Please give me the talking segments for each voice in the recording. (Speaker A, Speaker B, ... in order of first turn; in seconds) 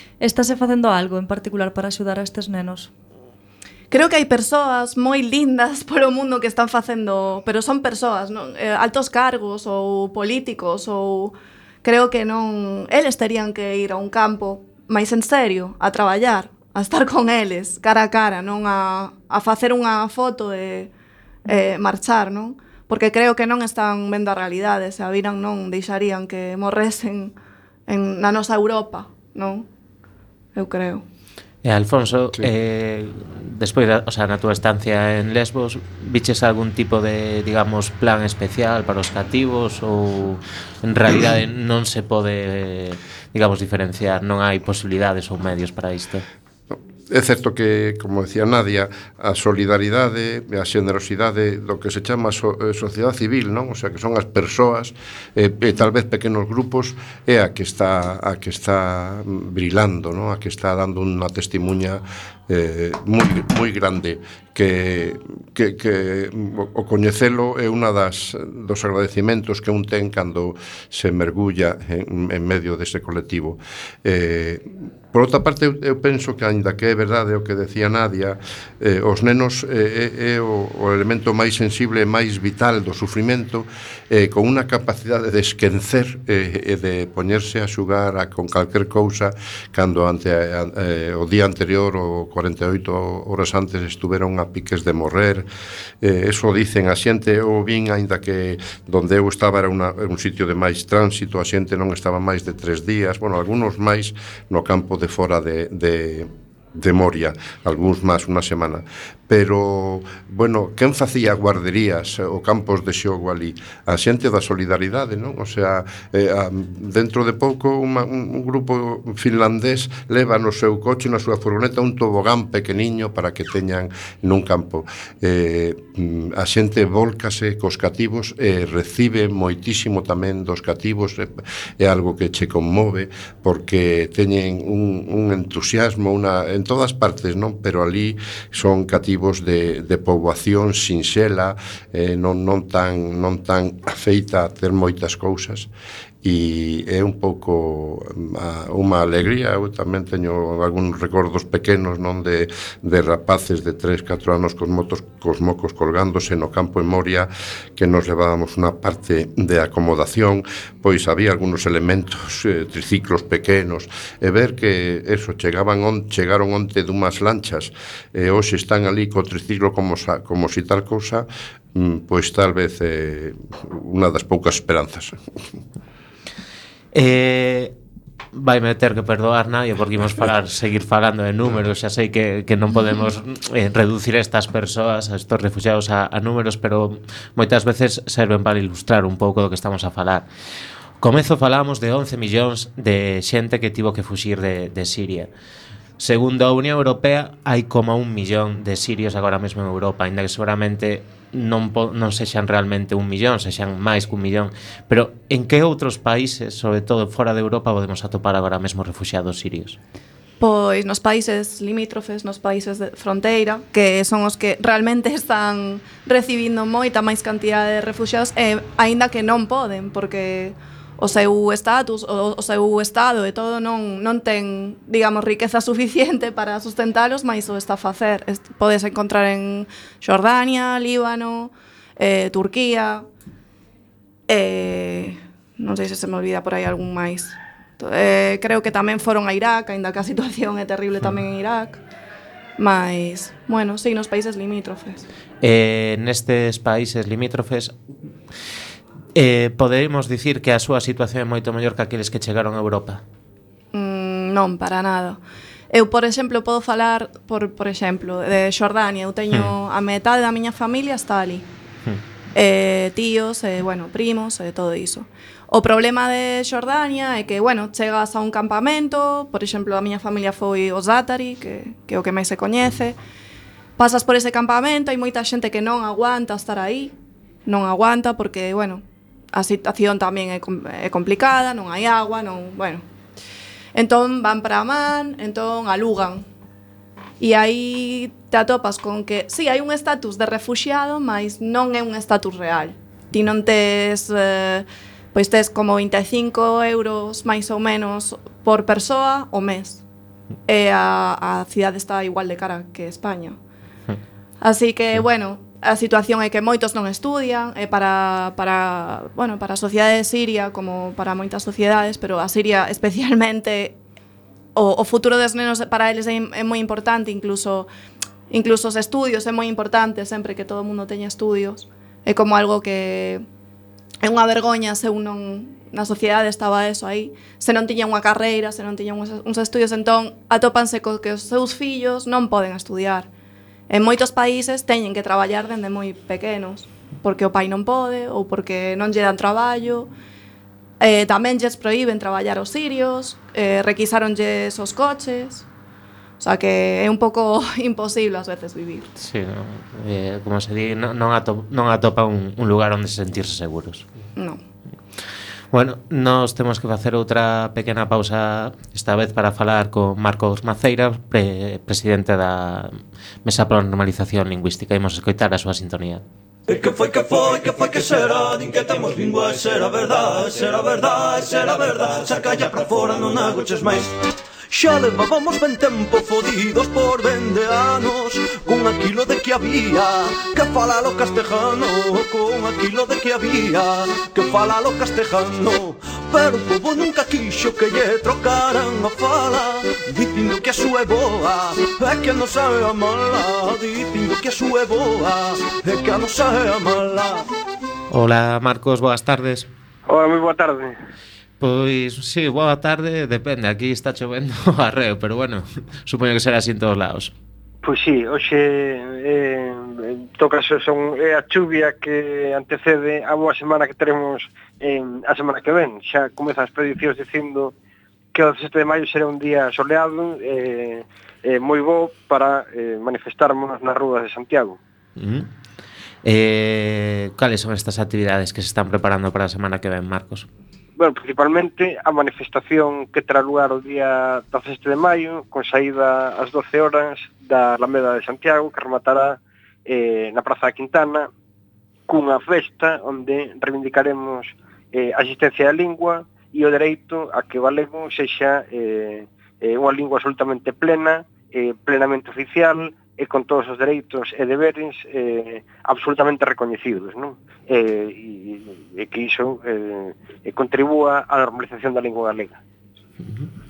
Speaker A: 0.2-2.9
Speaker B: 3.9-20.9, 21.4-27.3, 27.9-29.7, 30.5-31.0, 210.4-233.0, 234.3-241.8, 242.6-245.1, 253.7-261.5, 262.3-273.0, 273.8-276.9, 277.4-282.8, 283.7-286.3, 287.2-299.8, 300.5-303.4, 304.4-313.8, 314.6-317.7, 318.3-323.2, 324.0-333.1, 333.7-339.9, 340.8-345.4, 346.2-348.9
Speaker C: 31.6-46.2, 176.9-177.7, 178.3-190.3, 191.0-195.3, 196.0-209.8, 245.4-247.8, 249.1-253.0, 349.0-353.9, 355.5-366.0, 397.9-399.5, 401.4-407.1, 425.0-425.3, 426.0-430.3, 463.0-463.3
Speaker D: 46.7-95.5, 96.0-145.7, 146.2-175.2
Speaker E: 366.5-373.9, 374.5-397.3
Speaker F: 399.9-400.7, 407.6-417.5, 418.1-424.6, 430.8-441.1, 441.9-462.4